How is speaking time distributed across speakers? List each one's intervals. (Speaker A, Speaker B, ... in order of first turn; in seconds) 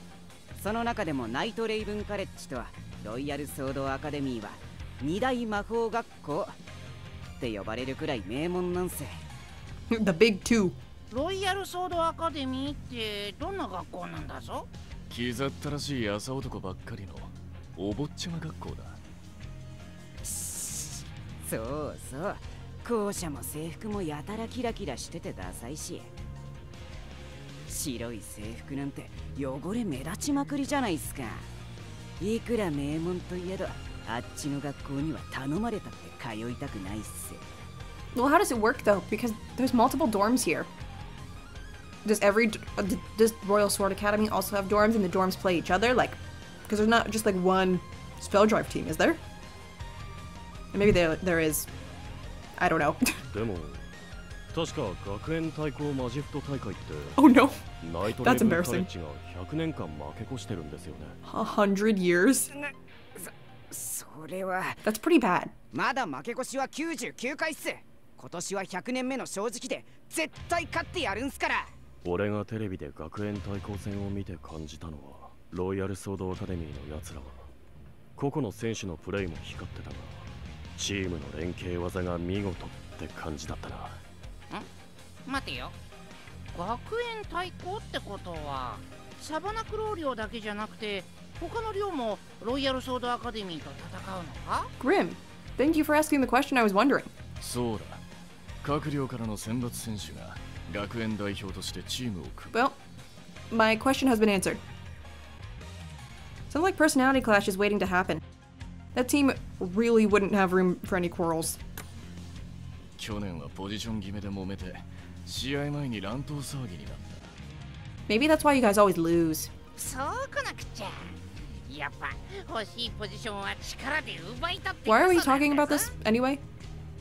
Speaker A: 0.6-6.5, 7.4-9.2, 20.2-26.1, 27.7-31.4, 32.2-37.5, 62.5-64.8, 65.7-71.7
Speaker B: 9.9-10.8, 38.1-40.7, 42.0-49.2, 50.7-51.7, 52.6-53.2, 57.1-57.6, 58.2-58.9, 61.2-62.5, 64.8-65.5, 94.8-97.1, 103.5-104.6, 106.5-108.2, 108.9-111.6, 118.1-119.5, 124.9-126.4
Speaker C: 11.1-14.7, 85.2-85.8, 86.5-94.7, 119.8-125.9
Speaker D: 15.1-19.0, 97.4-98.0, 98.6-102.5, 113.0-117.3
Speaker E: 53.3-53.9, 54.5-57.2, 57.8-61.2, 72.0-77.5, 78.2-80.2, 80.8-84.0